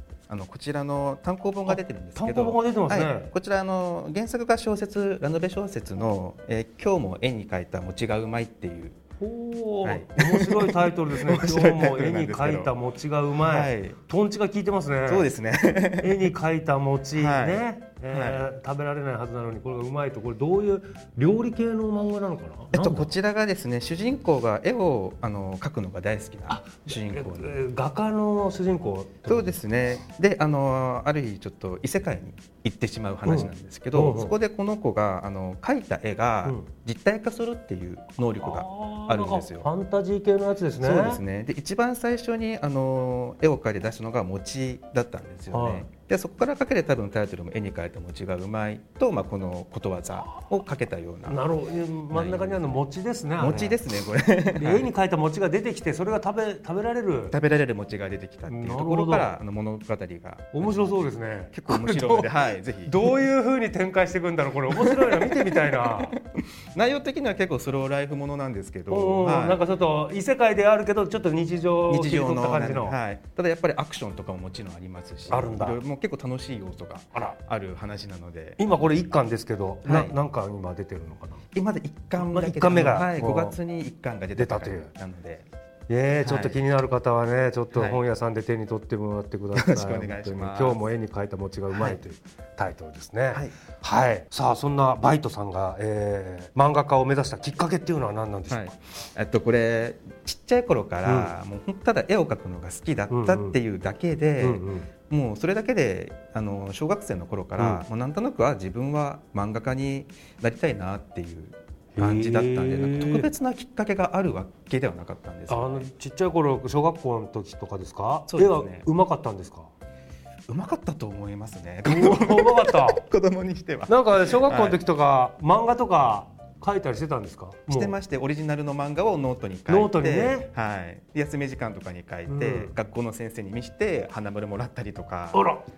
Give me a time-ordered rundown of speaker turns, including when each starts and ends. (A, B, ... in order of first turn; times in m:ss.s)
0:00.3-0:09.0 A
0:01.7-0:03.3 B
0:09.2-0:15.3 B
0:09.8-0:12.7 A
0:13.4-0:14.0 A
0:15.1-0:16.3 A
0:15.9-0:23.1 B
0:17.2-0:18.5 A
0:22.7-0:27.6 A
0:26.5-0:29.6 B
0:29.3-0:39.7 A
0:33.2-0:34.3 B
0:38.4-0:41.2 B
0:40.8-0:51.5 A
0:45.5-0:45.9 B
0:51.3-0:53.8 B
0:52.1-0:52.8 A
0:53.4-0:54.9 A
0:54.5-0:57.4 B
0:57.3-1:03.2 A
0:58.5-0:59.3 B
1:00.5-1:02.3 B
1:02.8-1:06.2 B
1:04.7-1:09.6 A
1:08.9-1:13.0 B
1:11.9-1:18.6 A
1:15.3-1:15.8 B
1:18.6-1:21.4 B
1:19.8-1:20.2 A
1:21.5-1:25.5 A
1:22.2-1:23.6 B
1:24.4-1:24.9 B
1:25.9-1:38.8 B
1:26.2-1:26.6 A
1:27.7-1:28.0 A
1:29.5-1:30.9 A
1:31.7-1:32.0 A
1:38.5-1:55.9 A
1:41.0-1:41.3 B
1:43.1-1:43.6 B
1:44.4-1:44.9 B
1:52.0-1:53.3 B
1:55.5-1:59.7 B
1:58.3-1:58.9 A
2:00.5-2:04.8 A
2:01.8-2:03.0 B
2:03.9-2:08.0 B
2:07.7-2:15.5 A
2:09.7-2:10.5 B
2:12.3-2:12.7 B
2:15.3-2:15.7 B